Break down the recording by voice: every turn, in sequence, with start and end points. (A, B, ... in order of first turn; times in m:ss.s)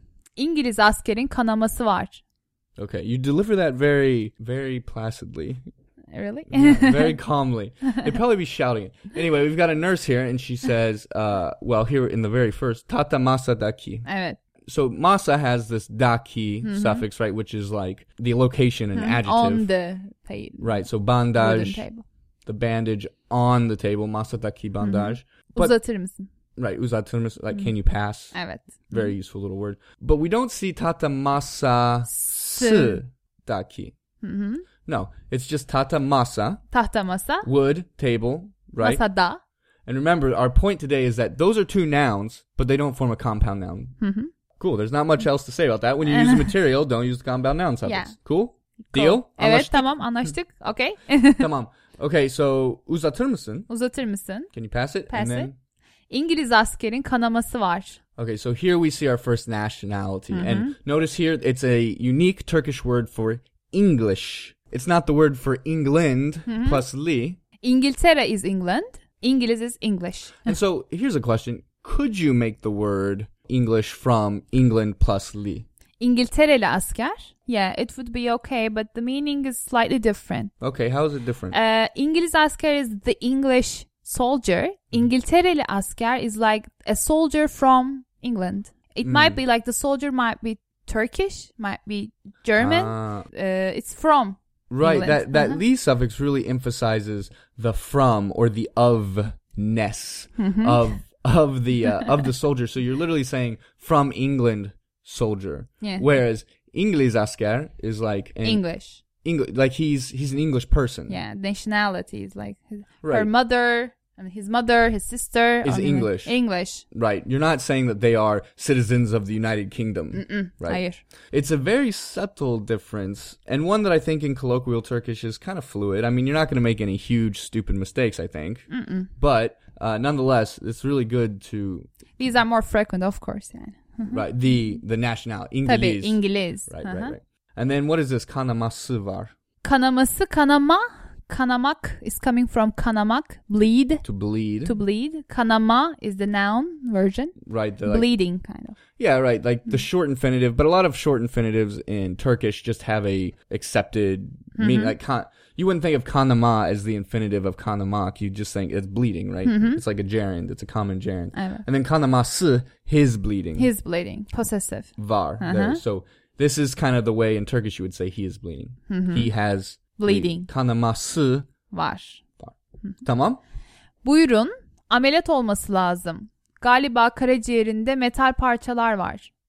0:00.4-0:02.2 A
0:02.8-0:05.6 B
0:06.1-0:07.2 A
0:06.5-0:14.1 B
0:14.0-0:14.4 A
0:14.6-0:19.7 B
0:16.6-0:17.0 A
0:18.9-0:20.8 A
0:20.6-0:21.8 B
0:21.3-0:22.0 A
0:22.4-0:25.8 B
0:24.8-0:26.3 A
0:26.6-0:28.3 B
0:28.3-0:29.1 A
0:28.9-0:33.9 B
0:32.1-0:33.0 A
0:34.2-0:34.6 A
0:34.8-0:36.6 B
0:36.7-0:37.5 A
0:37.4-0:39.0 B
0:38.8-0:39.4 A
0:39.8-0:44.0 B
0:44.0-0:44.3 A
0:44.6-0:50.3 B
0:46.0-0:46.5 A
0:47.8-0:48.1 A
0:48.8-0:51.5 A
0:51.4-0:53.7 B
0:53.7-0:54.5 A
0:54.5-0:55.6 B
0:55.1-0:55.5 A
0:56.1-0:58.0 A
0:58.2-1:07.4 B
1:00.3-1:00.7 A
1:06.5-1:06.8 A
1:07.6-1:10.5 A
1:10.4-1:15.6 B
1:16.0-1:20.5 A
1:20.6-1:21.5 B
1:21.5-1:35.6 A
1:29.0-1:29.4 B
1:32.6-1:33.3 B
1:34.7-1:48.6 B
1:40.4-1:40.8 A
1:48.4-1:49.0 A
1:49.2-1:51.2 B
1:51.1-1:56.8 A
1:53.0-1:53.3 B
1:55.6-1:56.3 B
1:56.8-2:11.9 B
2:00.1-2:01.0 A
2:08.7-2:09.1 A
2:12.2-2:14.2 A
2:14.1-2:19.3 B
2:15.6-2:17.1 A
2:19.6-2:24.0 A
2:24.0-2:24.8 B
2:24.6-2:28.8 A
2:27.4-2:28.1 B
2:29.0-2:43.7 B
2:34.6-2:34.9 A
2:39.4-2:39.8 A
2:41.4-2:41.6 A
2:43.6-2:45.8 A
2:45.0-2:51.5 B
2:48.9-2:49.3 A
2:50.0-2:50.5 A
2:51.7-2:52.2 A
2:52.4-2:53.4 B
2:54.0-2:59.3 A